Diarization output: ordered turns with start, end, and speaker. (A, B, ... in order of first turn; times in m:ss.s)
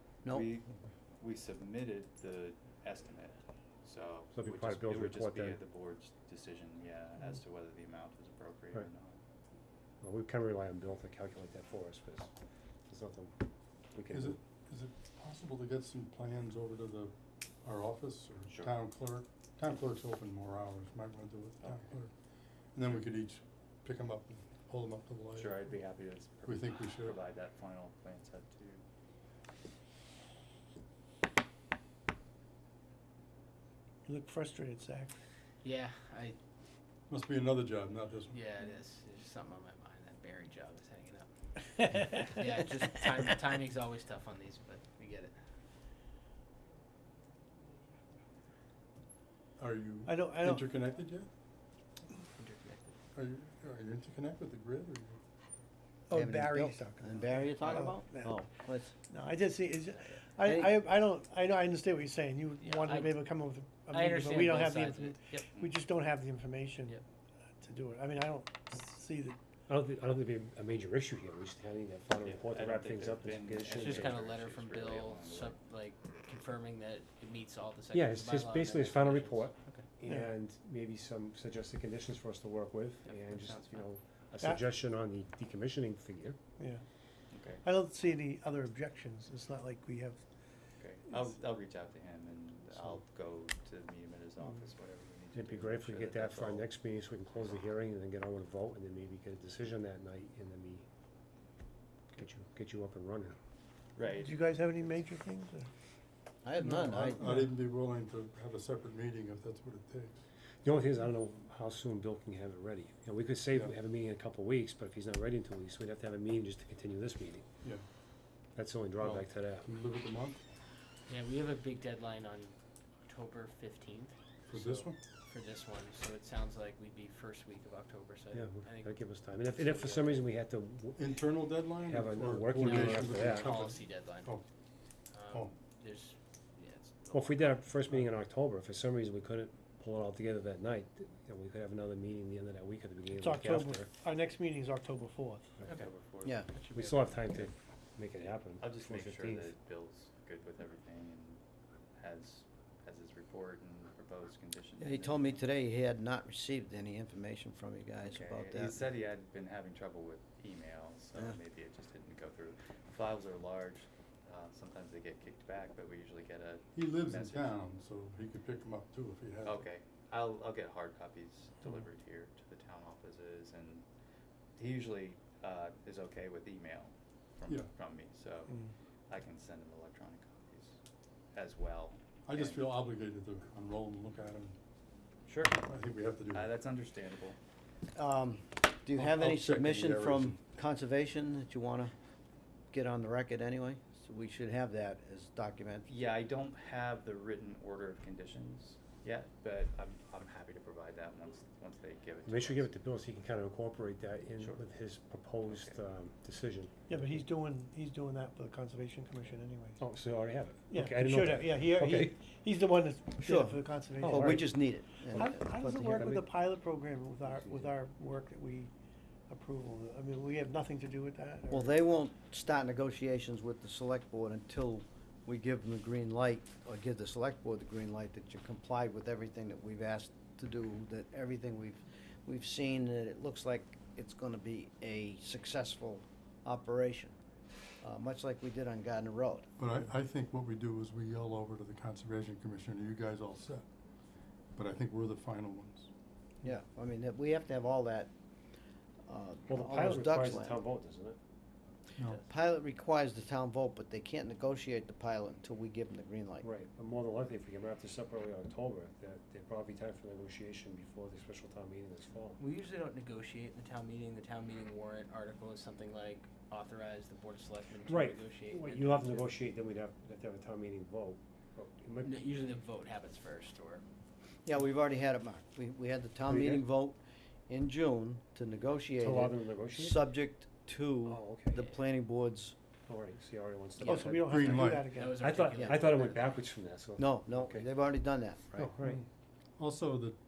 0:00.3-0:00.7 A
0:01.2-0:09.2 A
0:04.4-0:05.6 B
0:10.0-0:12.3 B
0:12.9-0:13.4 B
0:13.9-0:14.4 B
0:14.1-0:22.1 C
0:18.5-0:18.8 A
0:21.6-0:22.0 A
0:22.7-0:25.7 C
0:25.3-0:28.8 A
0:26.4-0:27.2 C
0:34.1-0:35.2 D
0:35.6-0:36.4 E
0:37.1-0:38.4 C
0:38.3-0:45.3 E
0:49.6-0:51.3 C
0:50.1-0:50.6 D
0:52.2-0:52.9 E
0:53.2-0:55.2 C
0:56.1-0:58.4 D
0:56.1-0:58.9 F
0:59.1-1:07.0 D
1:00.4-1:00.8 F
1:02.6-1:05.4 E
1:05.4-1:05.8 A
1:07.6-1:09.4 D
1:09.7-1:14.2 B
1:12.2-1:15.6 A
1:13.7-1:19.8 E
1:17.9-1:26.4 B
1:20.1-1:20.3 D
1:23.1-1:23.6 E
1:27.3-1:27.6 A
1:27.6-1:30.2 D
1:30.8-1:36.7 A
1:35.3-1:40.9 B
1:42.2-1:43.4 B
1:44.0-1:45.0 A
1:44.2-1:45.7 D
1:46.4-1:47.3 F
1:46.6-1:50.2 C
1:50.6-1:57.5 B
1:58.6-1:59.7 B
1:59.0-2:00.4 C
2:01.1-2:10.3 E
2:04.5-2:05.0 C
2:08.3-2:11.1 B
2:11.0-2:14.4 C
2:11.8-2:13.5 B
2:12.6-2:14.4 E
2:15.1-2:17.6 E
2:17.1-2:23.9 B
2:23.2-2:25.5 D
2:25.7-2:26.4 A
2:26.4-2:27.3 E
2:26.7-2:29.5 B
2:28.6-2:31.4 A
2:32.0-2:35.4 A
2:34.8-2:38.8 F
2:38.0-2:47.6 A
2:46.7-2:49.7 C
2:49.4-2:53.9 A
2:54.6-3:00.8 A
3:01.3-3:02.6 A
3:02.2-3:04.6 C
3:05.3-3:05.6 A
3:05.4-3:06.5 C
3:06.3-3:07.4 A
3:07.9-3:11.9 F
3:09.0-3:10.4 C
3:12.7-3:15.9 F
3:15.9-3:22.7 A
3:22.3-3:27.2 B
3:24.4-3:24.6 A
3:25.4-3:25.8 A
3:26.9-3:29.8 D
3:29.8-3:32.2 B
3:30.7-3:34.4 D
3:33.2-3:36.1 F
3:34.0-3:36.3 B
3:35.2-3:38.7 D
3:37.3-3:37.7 B
3:39.3-3:41.8 D
3:41.5-3:57.2 F
3:57.8-3:59.5 F
3:59.6-4:03.7 C
4:04.6-4:05.9 C
4:06.4-4:08.1 F
4:09.1-4:10.6 F
4:09.5-4:11.2 B
4:12.0-4:12.2 C
4:12.2-4:16.5 F
4:16.4-4:22.4 B
4:22.4-4:29.4 E
4:27.9-4:32.3 B
4:32.0-4:33.8 E
4:34.4-4:42.6 F
4:36.3-4:36.7 B
4:39.0-4:40.0 B
4:41.1-4:41.6 B
4:42.9-4:47.7 B
4:43.8-4:45.2 D
4:44.3-4:45.0 C
4:44.9-4:46.3 E
4:45.5-4:45.8 F
4:47.0-4:48.7 F
4:48.6-4:49.0 B
4:49.6-4:50.2 C